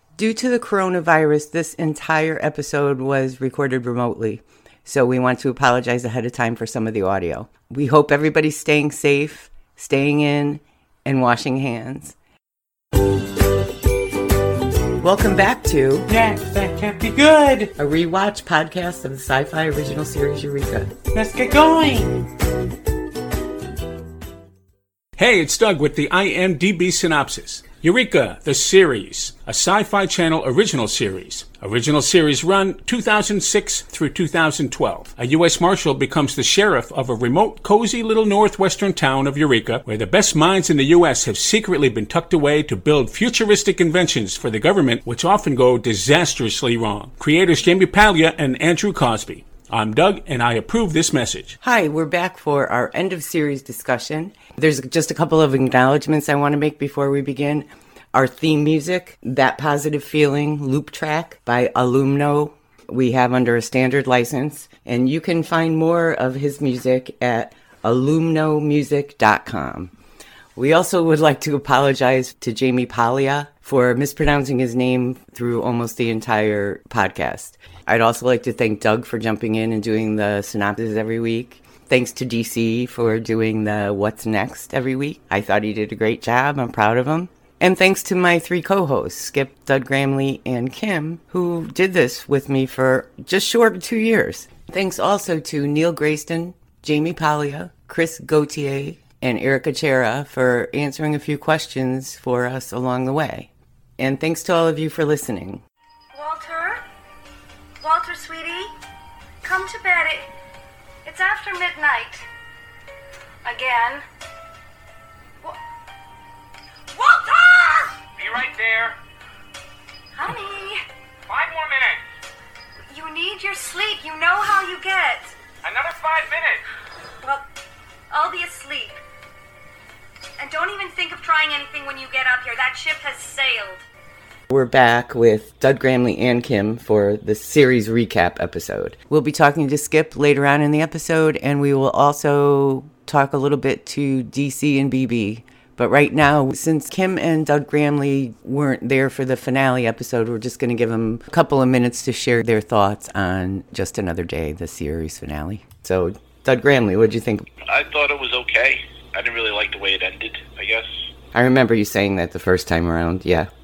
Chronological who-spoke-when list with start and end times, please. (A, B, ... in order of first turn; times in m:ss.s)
0:00.2-0:12.1 A
0:15.0-0:16.1 A
0:16.1-0:17.7 B
0:17.7-0:20.9 A
0:21.1-0:22.1 B
0:25.2-0:51.5 C
0:51.6-1:09.9 A
1:10.6-1:45.6 A
1:46.1-1:46.8 D
1:47.8-1:48.7 D
1:49.4-1:50.3 D
1:51.0-1:52.2 D
1:53.4-1:54.0 D
1:56.9-1:58.0 D
1:58.2-1:59.0 E
2:00.1-2:00.8 D
2:01.3-2:02.1 E
2:02.9-2:05.3 D
2:05.6-2:06.6 E
2:08.1-2:09.0 D
2:10.4-2:13.8 D
2:14.5-2:37.4 A
2:37.6-2:41.0 F
2:41.3-2:43.5 A